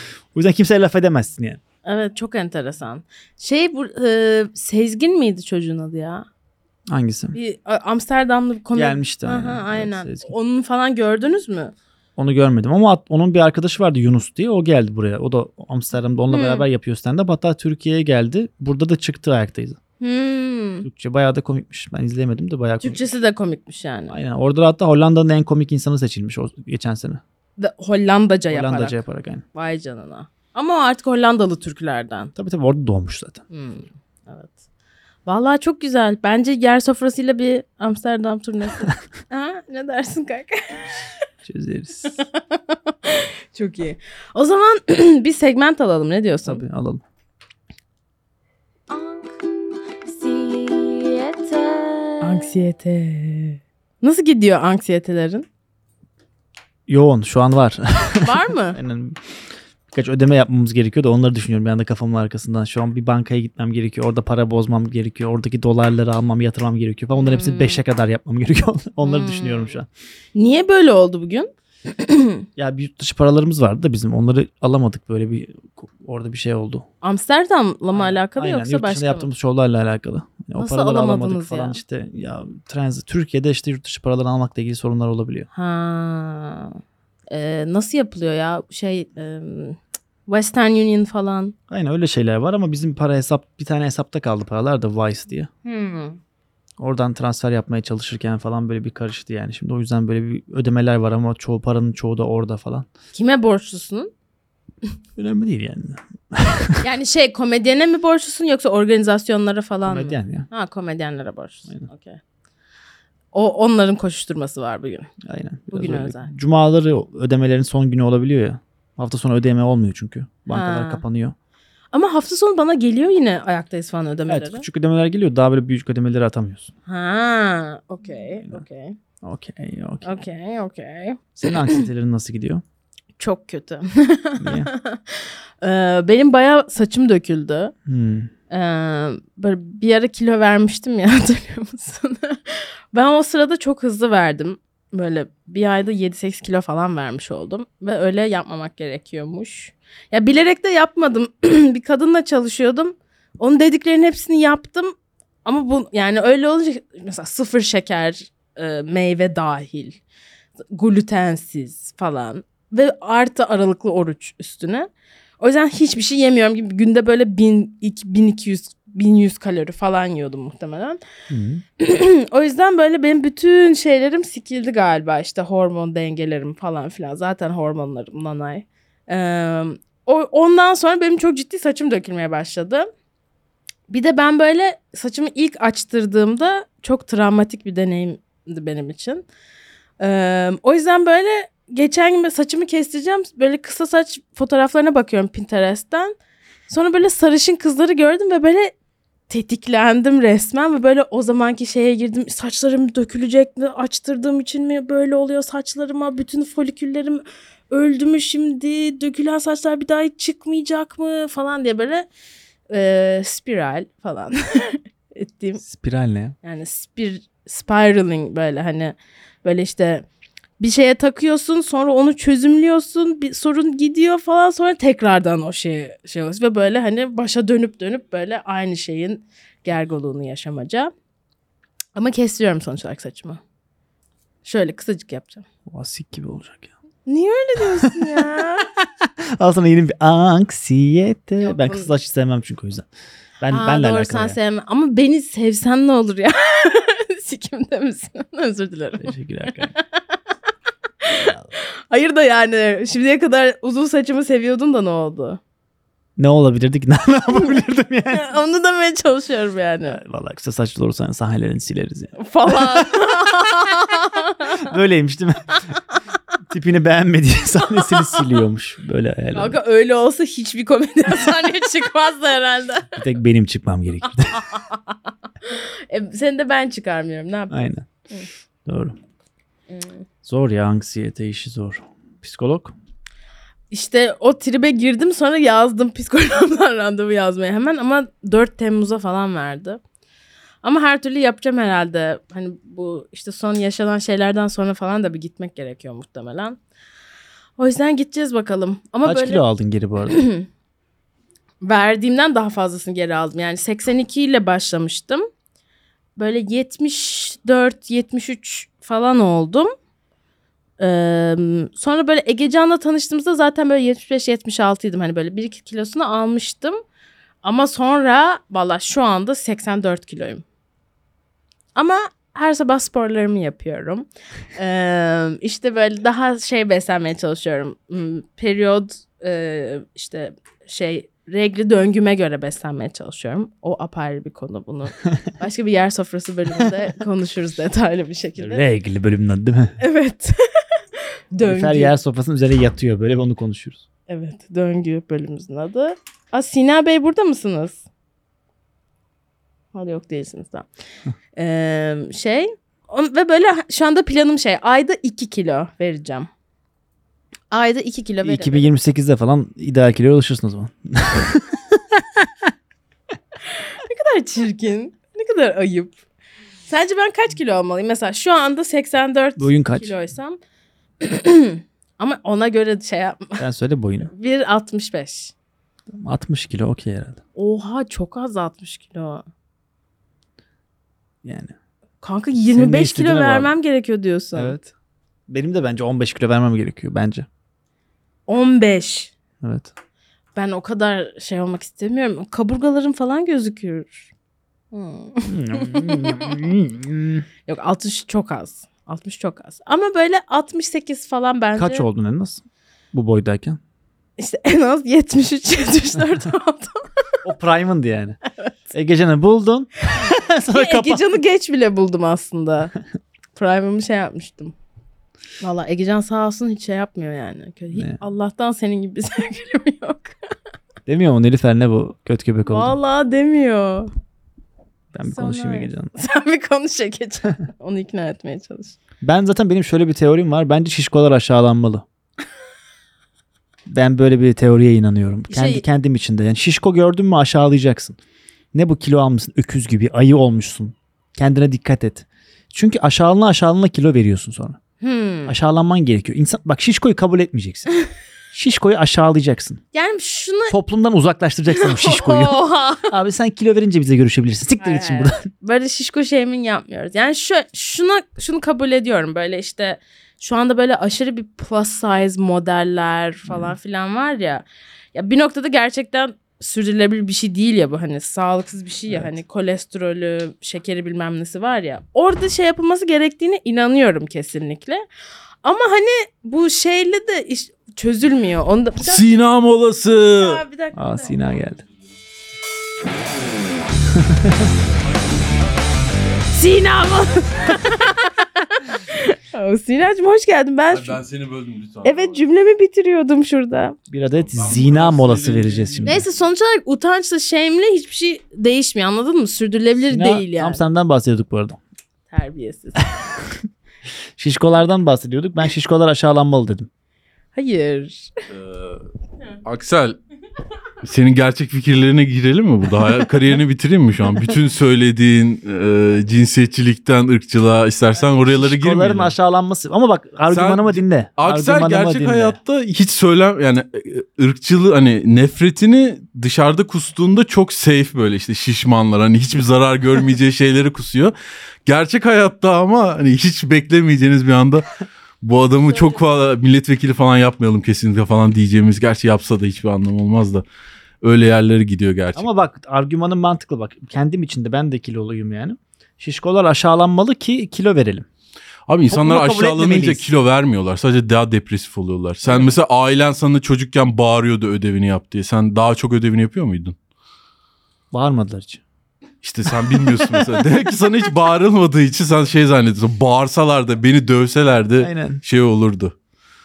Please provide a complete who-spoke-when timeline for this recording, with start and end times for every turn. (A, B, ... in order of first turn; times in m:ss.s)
0:00.3-0:01.6 A
0:01.8-0:06.3 B
0:06.9-0:07.4 A
0:07.3-0:11.7 B
0:08.7-0:10.3 A
0:12.2-0:19.8 A
0:16.3-0:16.6 B
0:20.0-0:20.9 B
0:20.8-0:23.1 A
0:22.8-0:24.2 B
0:24.1-0:27.2 A
0:27.6-0:29.0 B
0:28.5-0:29.4 A
0:29.5-0:32.3 B
0:32.3-0:33.4 A
0:33.5-0:34.6 B
0:35.2-0:40.9 B
0:41.4-0:42.2 A
0:42.1-0:46.6 B
0:46.4-0:47.0 A
0:48.9-0:55.4 B
0:56.9-0:59.2 A
0:58.2-0:58.8 B
0:59.9-1:09.9 A
1:07.1-1:07.8 B
1:09.0-1:09.8 B
1:10.3-1:12.4 B
1:12.6-1:16.8 A
1:17.0-1:19.3 B
1:17.9-1:25.5 A
1:20.6-1:21.8 B
1:25.5-1:31.5 B
1:31.7-1:35.5 A
1:35.6-1:36.2 B
1:36.8-1:42.9 A
1:43.1-1:44.1 B
1:45.2-1:46.8 A
1:46.8-1:52.2 B
1:49.8-1:50.5 A
1:53.3-1:55.1 B
1:55.2-2:01.3 A
1:55.7-1:56.3 B
2:00.5-2:01.0 B
2:01.9-2:04.6 B
2:04.3-2:06.7 A
2:06.9-2:09.0 B
2:09.2-2:10.1 A
2:10.0-2:11.8 B
2:11.4-2:12.6 A
2:13.2-2:17.7 B
2:14.4-2:14.7 A
2:17.8-2:18.3 A
2:18.5-2:34.9 B
2:35.4-2:40.0 B
2:40.7-2:51.0 B
2:51.3-2:51.6 A
2:51.8-3:02.9 B
3:03.9-3:09.2 B
3:10.0-3:16.1 B
3:16.7-3:18.7 B
3:19.3-3:32.1 B
3:32.7-3:35.6 B
3:35.6-3:36.4 A
3:36.4-3:40.0 B
3:40.6-3:50.9 B
3:52.0-3:53.4 B
3:54.4-3:55.4 B
3:55.7-3:56.7 A
3:57.0-3:58.7 B
3:57.8-3:58.3 A
3:59.0-4:02.9 A
4:01.4-4:01.9 B
4:03.4-4:04.4 A
4:03.5-4:09.8 B
4:09.0-4:09.7 A
4:11.0-4:15.4 B
4:11.2-4:11.5 A
4:16.2-4:18.3 A
4:18.1-4:20.0 B
4:19.9-4:23.0 A
4:22.2-4:24.6 B
4:24.6-4:25.6 A
4:26.5-4:29.6 A
4:29.3-4:33.0 B
4:32.9-4:34.4 A
4:34.3-4:38.3 B
4:37.5-4:37.8 A
4:38.6-4:39.0 A
4:39.7-4:40.0 B
4:40.2-4:42.7 A
4:43.7-4:49.8 B
4:50.6-4:56.6 B
4:57.6-4:59.4 B
4:59.0-5:00.2 A
5:00.1-5:00.4 B
5:01.6-5:05.3 B
5:06.2-5:09.7 B
5:10.8-5:16.8 B
5:17.4-5:20.4 B
5:21.7-5:38.6 B
5:38.4-5:39.8 A
5:39.8-5:41.9 B
5:41.4-5:43.8 A
5:44.1-5:47.8 B
5:49.7-5:50.7 B
5:51.4-5:56.3 B
5:57.5-5:58.7 B
5:58.2-6:02.3 A
6:03.5-6:06.0 B
6:06.7-6:10.4 B
6:09.4-6:09.9 A
6:11.0-6:13.4 B
6:13.4-6:14.1 A
6:14.1-6:15.3 B
6:16.0-6:17.2 A
6:17.4-6:19.2 B
6:21.2-6:21.5 A
6:22.0-6:24.6 B
6:22.4-6:23.5 A
6:24.4-6:24.7 A
6:25.3-6:27.3 A
6:28.3-6:29.1 B
6:29.4-6:29.7 A
6:30.4-6:34.1 B
6:34.7-6:36.4 B
6:35.3-6:37.2 A
6:37.4-6:41.8 B
6:41.6-6:43.6 A
6:44.2-6:47.0 B
6:47.2-6:48.2 A
6:48.7-6:51.1 A
6:50.5-6:52.7 B
6:53.3-6:54.5 B
6:55.4-7:00.2 B
7:00.9-7:02.7 A
7:02.4-7:03.9 B
7:04.9-7:05.9 A
7:05.0-7:08.8 B
7:09.0-7:11.8 A
7:13.7-7:18.0 A
7:15.3-7:15.6 B
7:18.5-7:24.6 A
7:24.8-7:25.3 B
7:25.2-7:27.7 A
7:28.3-7:29.6 A
7:29.7-7:30.6 B
7:30.5-7:35.3 A
7:31.5-7:32.9 B
7:34.6-7:54.8 B
7:43.2-7:43.6 A
7:48.9-7:49.2 A
7:55.4-7:59.0 B
7:58.8-8:00.4 C
7:59.9-8:01.4 B
8:00.7-8:01.6 A
8:03.9-8:04.5 A
8:05.1-8:05.4 C
8:06.3-8:11.0 B
8:10.7-8:12.2 C
8:11.8-8:13.8 B
8:13.9-8:16.0 A
8:14.2-8:16.0 C
8:15.8-8:20.6 B
8:19.9-8:21.6 A
8:22.1-8:22.9 B
8:24.2-8:26.7 A
8:27.3-8:28.1 B
8:28.3-8:28.8 C
8:29.4-8:30.0 C
8:30.8-8:39.1 C
8:38.0-8:42.4 A
8:40.3-8:51.1 C
8:51.6-9:00.4 C
8:55.7-8:56.0 B
9:01.0-9:02.4 C
9:02.2-9:08.1 A
9:08.7-9:16.8 C
9:08.9-9:10.1 A
9:12.2-9:12.5 A
9:17.9-9:18.6 A
9:19.2-9:25.9 C
9:19.5-9:20.4 A
9:24.8-9:25.2 A